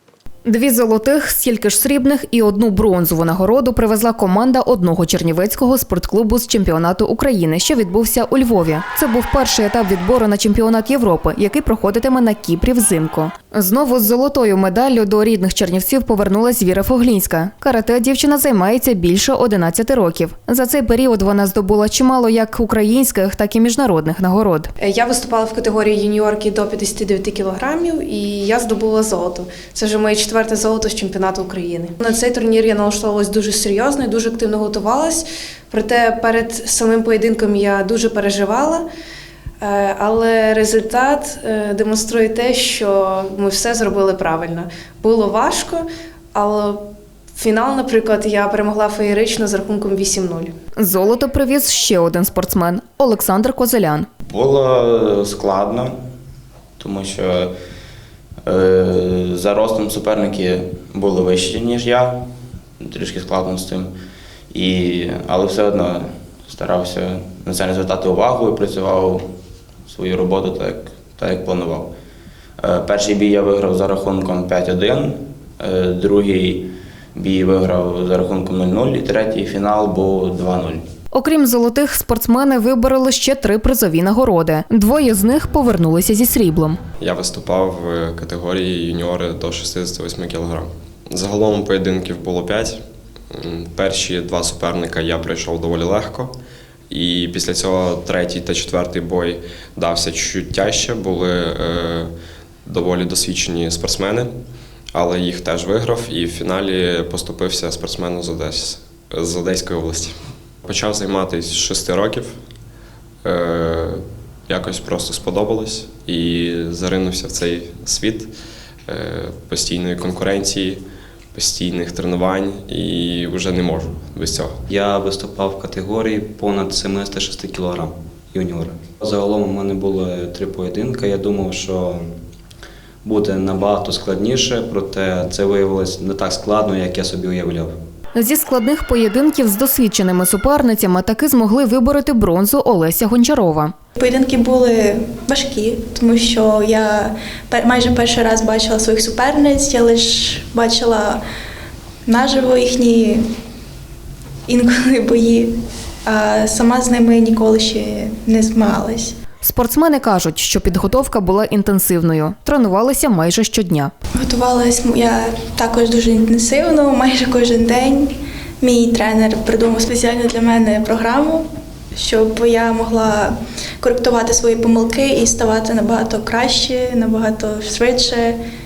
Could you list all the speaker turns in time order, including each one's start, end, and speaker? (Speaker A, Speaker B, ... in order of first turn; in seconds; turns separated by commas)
Speaker A: 0.5-24.7, Speaker B: 24.8-38.8, Speaker B: 39.6-45.8, Speaker B: 46.3-46.8, Speaker B: 47.4-50.5, Speaker A: 50.8-54.1, Speaker C: 54.3-55.9, Speaker C: 56.8-57.5, Speaker C: 58.5-62.1, Speaker C: 62.9-63.9, Speaker C: 64.5-69.2, Speaker C: 69.9-71.9, Speaker C: 72.6-80.8, Speaker A: 81.1-86.8, Speaker D: 87.0-92.8, Speaker D: 93.3-96.3, Speaker D: 96.9-102.1, Speaker D: 102.7-104.3, Speaker D: 104.9-112.3, Speaker D: 113.2-118.3, Speaker D: 118.9-120.8, Speaker D: 121.3-124.6, Speaker E: 124.7-132.1, Speaker E: 133.0-137.8, Speaker A: 138.2-143.7, Speaker F: 144.0-151.2, Speaker F: 152.1-153.2, Speaker F: 154.5-155.6, Speaker F: 156.1-159.2, Speaker A: 159.4-163.9, Speaker F: 164.2-178.4